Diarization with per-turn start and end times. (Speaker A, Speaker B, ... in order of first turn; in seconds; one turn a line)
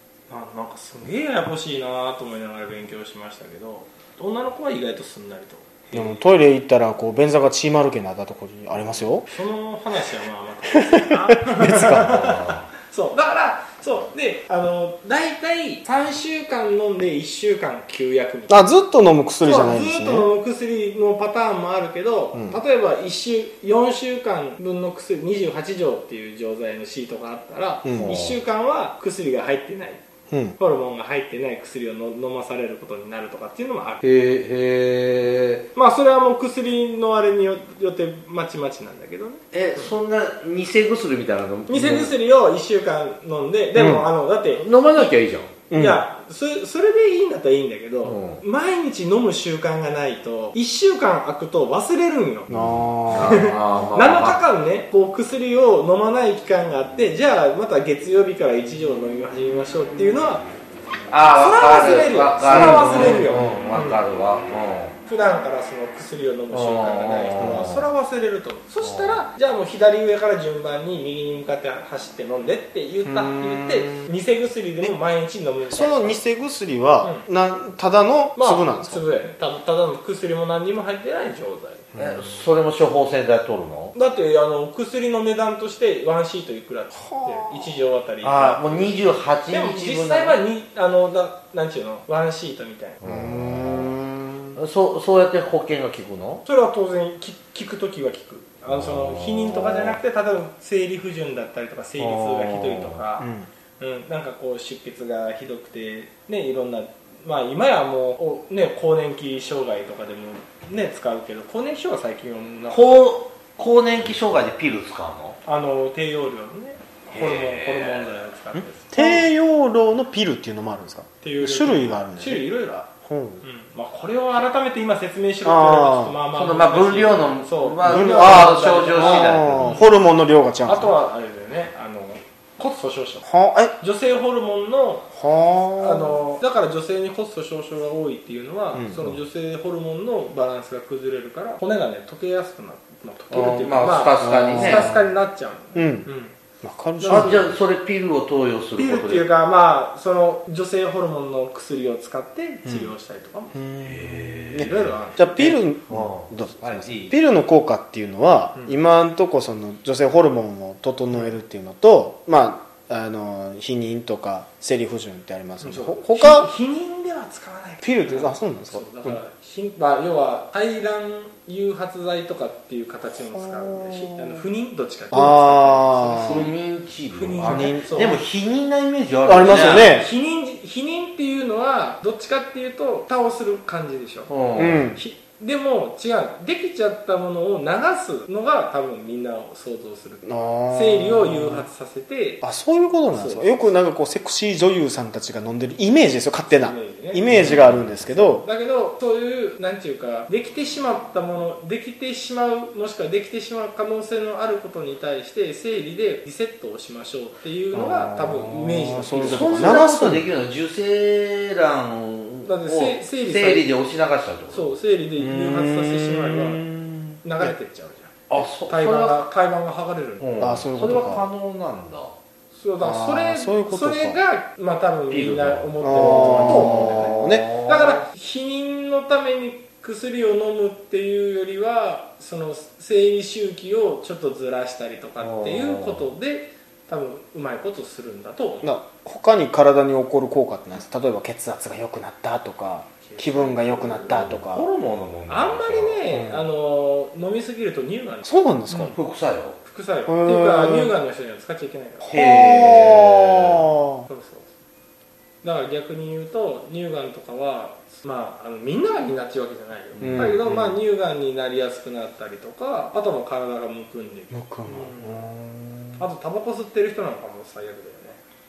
Speaker A: 0.3-6.2
Speaker B: 5.9-9.3
Speaker A: 9.3-18.6
Speaker B: 11.3-12.2
Speaker C: 12.0-12.7
Speaker B: 18.5-20.3
Speaker A: 19.4-30.0
Speaker B: 22.3-22.6
Speaker B: 27.8-28.2
Speaker C: 28.0-28.4
Speaker B: 30.3-30.6
Speaker A: 30.6-34.0
Speaker C: 34.0-35.7
Speaker A: 35.8-39.9
Speaker C: 39.5-42.1
Speaker A: 41.7-45.1
Speaker B: 43.8-44.1
Speaker C: 44.5-45.5
Speaker B: 45.7-46.0
Speaker A: 45.7-52.6
Speaker C: 48.0-48.4
Speaker B: 52.5-53.5
Speaker C: 53.1-54.4
Speaker A: 53.1-60.5
Speaker C: 61.1-65.0
Speaker A: 61.3-64.0
Speaker B: 62.5-63.3
Speaker A: 65.0-76.2
Speaker C: 66.5-67.9
Speaker B: 67.4-67.7
Speaker C: 68.8-69.2
Speaker B: 73.0-74.1
Speaker B: 75.7-79.0
Speaker A: 77.0-77.3
Speaker A: 78.4-81.9
Speaker B: 81.9-82.4
Speaker C: 82.0-83.9
Speaker A: 84.0-93.0
Speaker B: 86.9-87.8
Speaker C: 88.2-90.4
Speaker C: 93.0-94.0
Speaker B: 93.0-94.6
Speaker C: 94.6-96.4
Speaker A: 96.5-112.9
Speaker C: 98.7-100.0
Speaker C: 102.0-103.0
Speaker B: 103.2-103.5
Speaker C: 112.7-115.4
Speaker A: 115.5-119.3
Speaker C: 117.1-118.3
Speaker B: 118.5-122.4
Speaker A: 121.2-122.9
Speaker B: 123.0-123.4
Speaker A: 123.4-129.9
Speaker B: 125.4-126.2
Speaker C: 126.3-129.8
Speaker B: 127.8-130.9
Speaker A: 130.7-133.3
Speaker B: 133.2-133.8
Speaker A: 133.8-135.1
Speaker B: 135.1-136.2
Speaker A: 135.8-146.3
Speaker B: 138.7-139.2
Speaker C: 143.3-144.9
Speaker B: 144.2-145.2
Speaker B: 145.8-146.1
Speaker B: 146.6-147.5
Speaker A: 147.0-147.5
Speaker C: 147.1-149.3
Speaker A: 148.8-153.6
Speaker B: 152.7-152.9
Speaker B: 153.5-166.5
Speaker C: 153.8-154.9
Speaker A: 154.6-155.6
Speaker C: 155.9-157.1
Speaker A: 165.6-176.5
Speaker B: 167.8-169.2
Speaker B: 173.3-174.4
Speaker B: 175.1-176.5
Speaker C: 176.1-179.9
Speaker A: 177.1-178.2
Speaker B: 177.4-178.0
Speaker B: 179.2-180.1
Speaker A: 179.4-184.3
Speaker C: 184.3-184.9
Speaker B: 184.6-185.0
Speaker A: 184.8-192.4
Speaker B: 190.2-191.7
Speaker B: 192.4-198.4
Speaker A: 193.1-193.7
Speaker A: 196.5-209.8
Speaker C: 197.3-197.8
Speaker B: 207.7-210.3
Speaker C: 209.2-214.8
Speaker A: 212.4-213.7
Speaker A: 214.5-216.6
Speaker B: 215.2-217.5
Speaker A: 217.2-220.3
Speaker C: 218.3-219.3
Speaker C: 220.2-222.1
Speaker B: 220.4-221.2
Speaker A: 222.5-238.7
Speaker B: 222.8-224.2
Speaker C: 225.1-228.0
Speaker B: 225.8-227.5
Speaker C: 235.2-236.1
Speaker B: 238.6-244.7
Speaker A: 243.0-244.3
Speaker C: 244.1-246.0
Speaker A: 245.3-248.3
Speaker B: 246.1-246.5
Speaker B: 248.2-249.0
Speaker C: 248.7-249.6
Speaker A: 249.6-252.1
Speaker B: 250.1-250.9
Speaker C: 252.0-253.6
Speaker B: 252.1-254.1
Speaker A: 254.1-254.5
Speaker A: 255.4-265.3
Speaker C: 260.0-260.4
Speaker B: 260.0-260.8
Speaker B: 264.3-266.1
Speaker A: 266.0-268.2